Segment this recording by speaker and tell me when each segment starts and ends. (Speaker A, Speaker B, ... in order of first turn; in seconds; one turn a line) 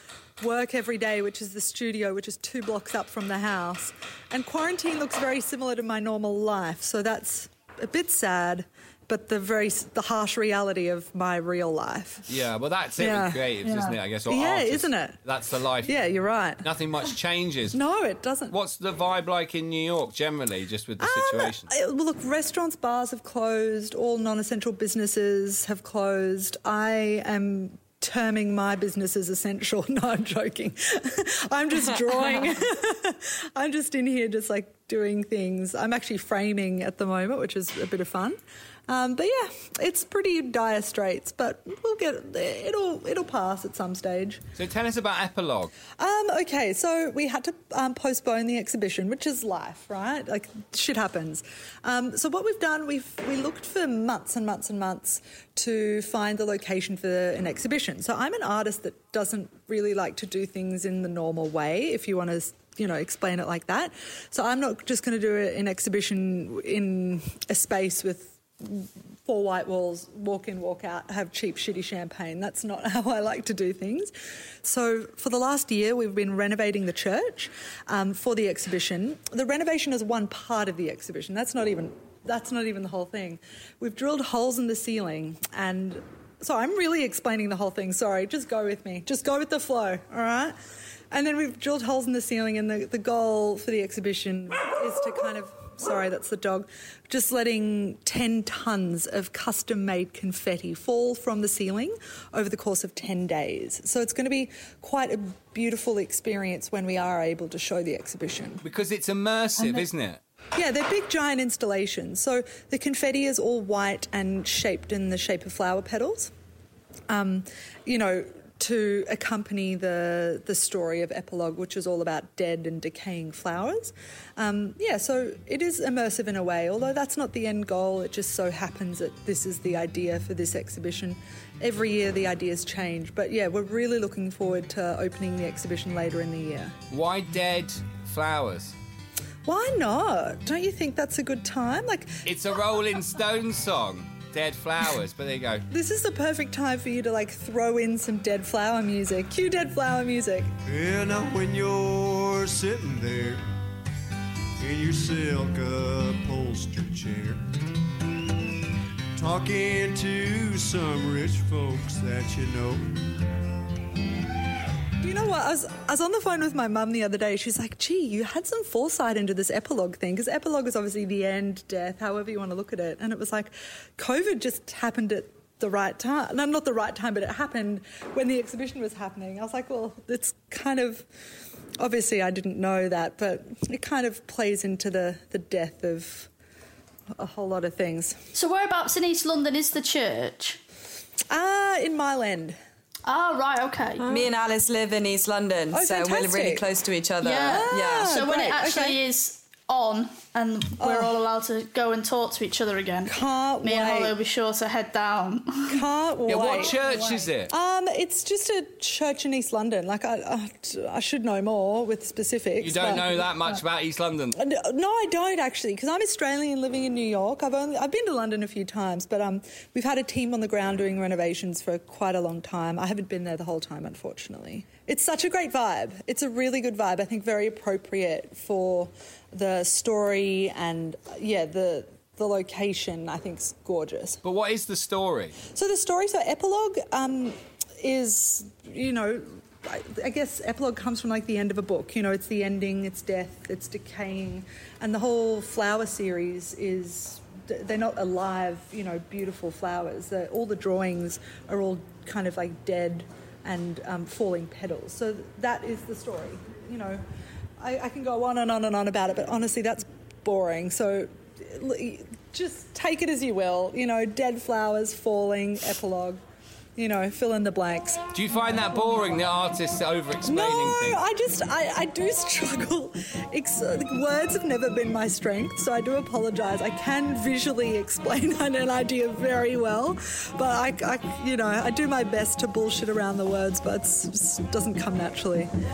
Speaker A: 0.4-12.3
Speaker B: 12.3-16.0
Speaker A: 13.0-15.2
Speaker A: 15.8-16.6
Speaker B: 16.6-17.8
Speaker A: 17.7-18.5
Speaker B: 18.5-21.7
Speaker A: 21.0-44.4
Speaker B: 44.6-45.7
Speaker A: 46.0-74.1
Speaker A: 74.6-90.5
Speaker A: 91.1-108.6
Speaker B: 108.6-110.2
Speaker A: 110.6-116.3
Speaker A: 117.1-136.8
Speaker B: 136.9-138.8
Speaker A: 139.5-142.3
Speaker B: 142.3-145.7
Speaker A: 145.7-150.5
Speaker C: 150.7-153.4
Speaker C: 154.6-157.5
Speaker C: 159.2-163.1
Speaker A: 165.0-181.1
Speaker A: 181.8-186.3
Speaker A: 187.2-188.2
Speaker D: 188.3-190.6
Speaker A: 191.3-192.6
Speaker D: 193.1-194.2
Speaker E: 194.1-198.1
Speaker A: 195.7-196.7
Speaker D: 197.2-205.8
Speaker A: 197.4-199.0
Speaker A: 200.8-201.2
Speaker A: 203.1-204.2
Speaker A: 205.7-213.6
Speaker B: 206.3-207.5
Speaker B: 212.6-214.4
Speaker A: 214.3-234.2
Speaker B: 234.2-235.4
Speaker A: 235.5-257.0
Speaker A: 257.6-266.2
Speaker A: 266.8-268.0
Speaker B: 268.1-271.0
Speaker A: 270.2-285.5